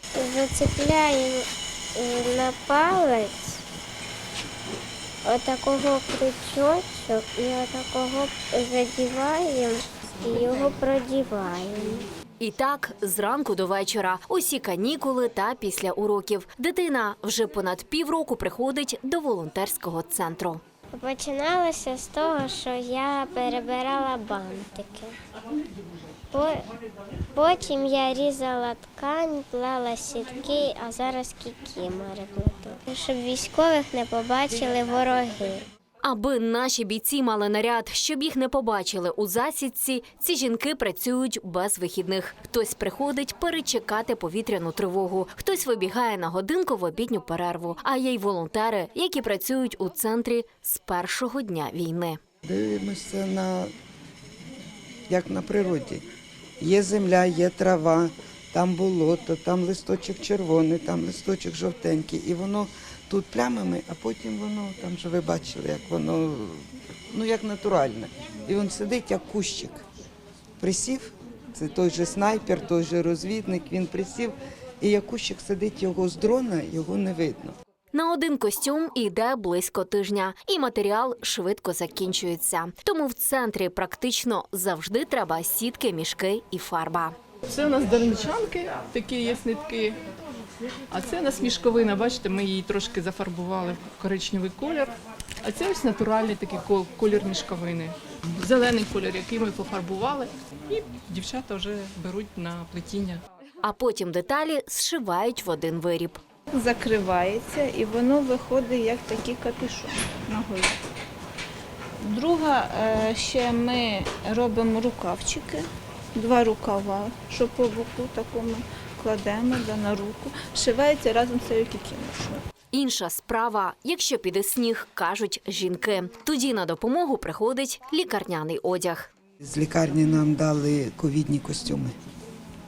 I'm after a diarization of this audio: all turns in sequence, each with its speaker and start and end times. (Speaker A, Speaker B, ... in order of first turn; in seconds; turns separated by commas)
Speaker A: 0.1-1.4, Speaker A: 1.9-3.6, Speaker A: 5.2-12.1, Speaker B: 12.4-20.6, Speaker A: 20.9-25.1, Speaker A: 26.3-26.6, Speaker A: 27.3-35.6, Speaker B: 36.1-52.1, Speaker C: 52.4-53.7, Speaker C: 55.1-56.0, Speaker C: 56.6-69.8, Speaker C: 70.6-77.5, Speaker B: 78.0-87.0, Speaker D: 87.5-89.9, Speaker D: 90.9-94.9, Speaker D: 95.5-97.9, Speaker D: 98.4-100.3, Speaker D: 101.1-103.2, Speaker B: 103.7-106.1, Speaker E: 106.6-110.7, Speaker E: 112.0-115.6, Speaker E: 116.2-122.4, Speaker B: 122.7-129.1, Speaker C: 129.4-131.9